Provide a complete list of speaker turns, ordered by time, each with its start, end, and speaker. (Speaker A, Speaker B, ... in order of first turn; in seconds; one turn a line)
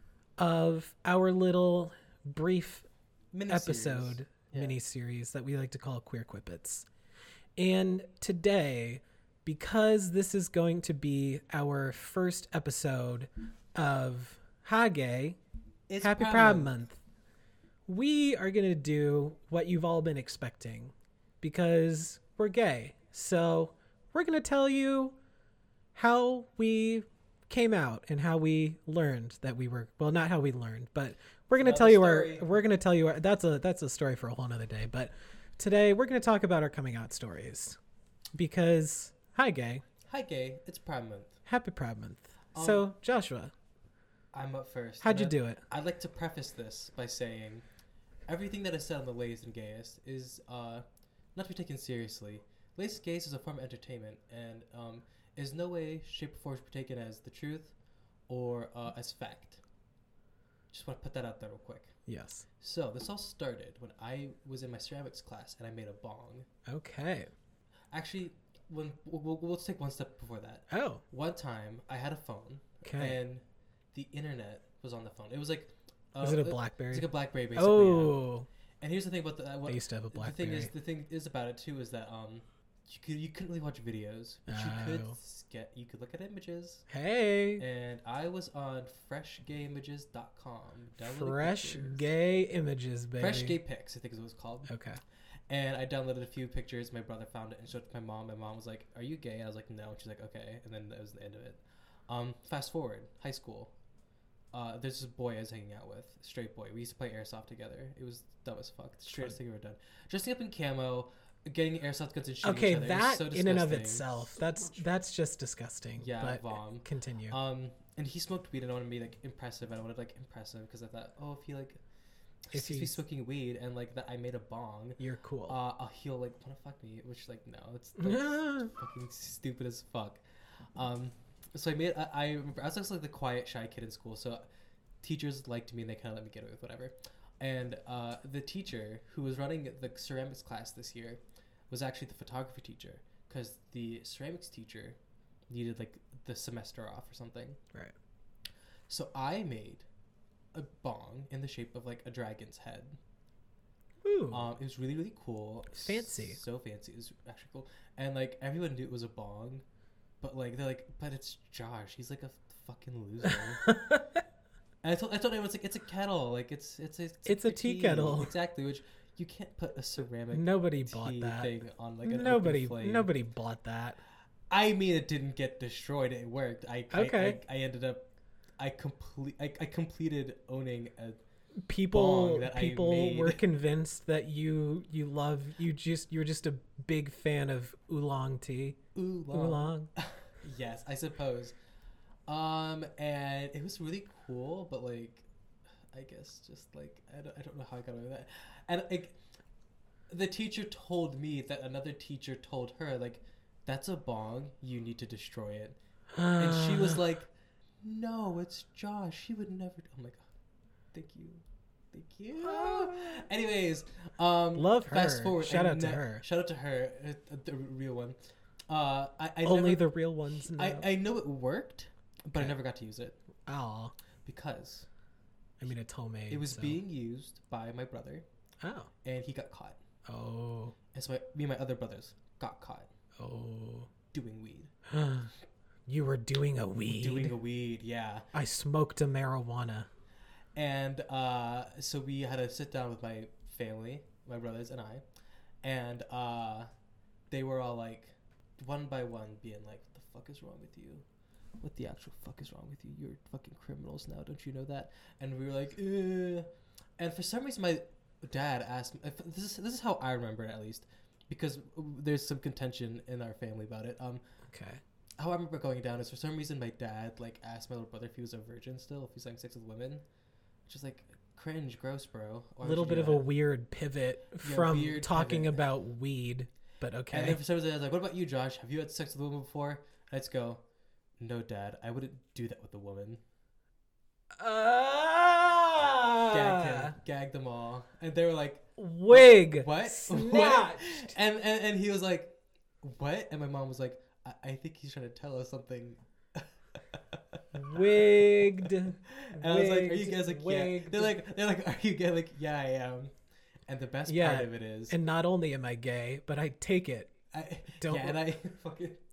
Speaker A: 0.4-2.9
Speaker B: 3.3-4.8
Speaker A: 3.5-6.9
Speaker A: 7.6-15.4
Speaker B: 15.9-16.7
Speaker A: 16.0-17.0
Speaker A: 17.9-25.2
Speaker A: 25.9-37.8
Speaker B: 31.6-32.6
Speaker A: 38.4-39.8
Speaker B: 40.1-41.4
Speaker A: 41.5-43.5
Speaker B: 42.5-42.9
Speaker B: 44.3-47.6
Speaker A: 45.0-45.6
Speaker B: 48.3-57.7
Speaker B: 58.3-59.6
Speaker B: 60.7-61.9
Speaker A: 62.1-62.5
Speaker B: 62.6-66.5
Speaker A: 66.7-67.3
Speaker B: 67.9-73.4
Speaker A: 70.7-71.0
Speaker A: 72.8-73.2
Speaker B: 73.9-78.2
Speaker A: 76.2-78.5
Speaker B: 78.8-86.9
Speaker A: 79.7-80.7
Speaker A: 84.5-85.2
Speaker A: 86.9-87.6
Speaker B: 87.6-92.1
Speaker A: 91.0-93.6
Speaker B: 93.2-94.7
Speaker A: 94.7-95.0
Speaker B: 95.5-103.7
Speaker B: 104.5-114.4
Speaker A: 112.4-117.4
Speaker B: 116.0-121.8
Speaker B: 122.5-130.2
Speaker A: 122.5-123.0
Speaker A: 125.0-125.6
Speaker A: 128.0-128.7
Speaker B: 130.8-134.4
Speaker B: 135.0-145.0
Speaker B: 145.5-147.6
Speaker B: 148.9-149.9
Speaker B: 150.5-153.0
Speaker A: 154.0-154.5
Speaker B: 154.3-159.6
Speaker A: 155.7-156.4
Speaker B: 160.2-163.7
Speaker A: 163.6-164.2
Speaker B: 164.8-173.1
Speaker A: 167.3-168.3
Speaker A: 170.3-171.5
Speaker A: 172.1-174.0
Speaker B: 174.5-181.2
Speaker A: 176.9-177.4
Speaker A: 181.7-188.8
Speaker B: 181.9-183.4
Speaker B: 188.9-191.6
Speaker A: 189.3-189.9
Speaker B: 192.3-195.3
Speaker B: 195.9-199.2
Speaker B: 200.1-205.8
Speaker A: 206.2-207.0
Speaker B: 206.3-210.3
Speaker B: 210.9-218.2
Speaker A: 212.4-213.2
Speaker A: 214.6-216.2
Speaker B: 218.7-219.9
Speaker A: 219.4-220.9
Speaker B: 220.4-223.2
Speaker A: 223.5-223.9
Speaker B: 224.2-224.9
Speaker A: 225.6-226.8
Speaker B: 226.3-228.2
Speaker A: 228.6-228.9
Speaker B: 229.0-229.8
Speaker A: 230.1-230.8
Speaker B: 230.9-232.9
Speaker A: 233.2-233.9
Speaker B: 234.1-234.7
Speaker A: 234.9-235.3
Speaker A: 235.9-237.3
Speaker B: 236.9-238.3
Speaker A: 238.3-239.9
Speaker B: 240.6-245.0
Speaker B: 245.6-246.7
Speaker B: 247.3-251.1
Speaker B: 251.6-256.5
Speaker B: 257.0-264.2
Speaker A: 264.5-264.8
Speaker B: 265.2-270.0
Speaker B: 270.7-273.3
Speaker A: 272.6-277.4
Speaker B: 274.4-275.7
Speaker B: 277.1-280.6
Speaker B: 281.2-283.2
Speaker A: 284.4-286.9
Speaker B: 286.3-298.5
Speaker A: 288.8-291.1
Speaker A: 297.6-301.4
Speaker B: 299.1-303.1
Speaker B: 303.7-305.0
Speaker A: 304.1-307.1
Speaker B: 307.3-309.0
Speaker A: 307.8-308.2